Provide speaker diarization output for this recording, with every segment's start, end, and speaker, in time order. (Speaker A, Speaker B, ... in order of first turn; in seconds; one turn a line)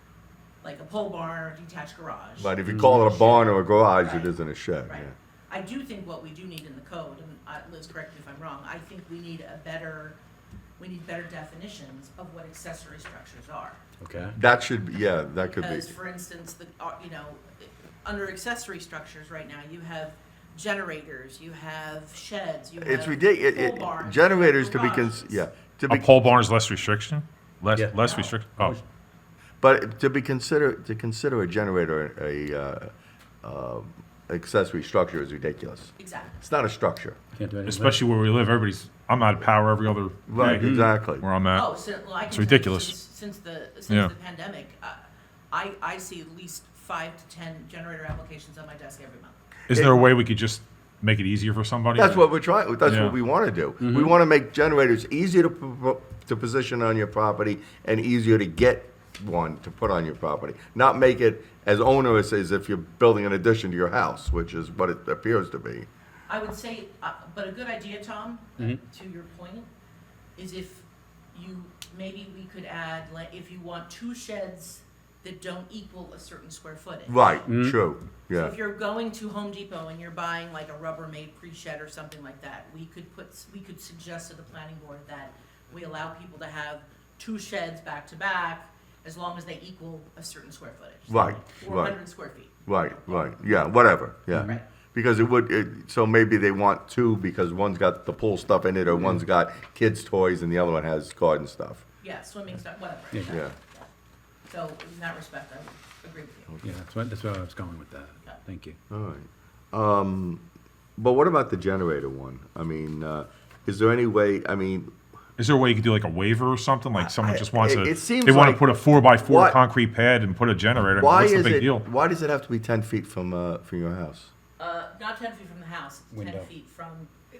Speaker A: 0.6-4.3
Speaker B: 2.4-5.1
Speaker A: 4.8-10.2
Speaker A: 10.8-13.8
Speaker C: 14.0-14.4
Speaker B: 14.3-15.9
Speaker A: 15.4-25.5
Speaker B: 22.8-26.3
Speaker D: 25.9-28.8
Speaker C: 27.7-28.8
Speaker A: 28.0-28.3
Speaker B: 29.6-32.9
Speaker B: 33.4-37.2
Speaker A: 36.0-36.4
Speaker C: 37.3-38.0
Speaker D: 37.6-41.7
Speaker B: 40.3-41.2
Speaker C: 40.4-40.9
Speaker A: 41.5-49.4
Speaker D: 42.2-42.9
Speaker D: 49.7-52.2
Speaker B: 49.7-50.0
Speaker B: 52.0-65.9
Speaker D: 52.8-53.1
Speaker C: 53.8-54.1
Speaker A: 66.3-69.7
Speaker A: 70.4-77.5
Speaker B: 77.0-78.5
Speaker C: 77.5-77.8
Speaker A: 78.3-93.4
Speaker B: 91.1-92.0
Speaker B: 92.7-101.8
Speaker C: 94.3-94.6
Speaker A: 94.3-94.7
Speaker A: 102.0-103.9
Speaker B: 103.3-103.5
Speaker A: 104.5-106.5
Speaker C: 106.6-108.8
Speaker B: 108.9-110.4
Speaker B: 111.0-114.9
Speaker D: 115.4-121.8
Speaker B: 117.0-118.6
Speaker B: 119.2-119.6
Speaker B: 121.0-124.3
Speaker A: 124.6-127.1
Speaker C: 126.1-126.5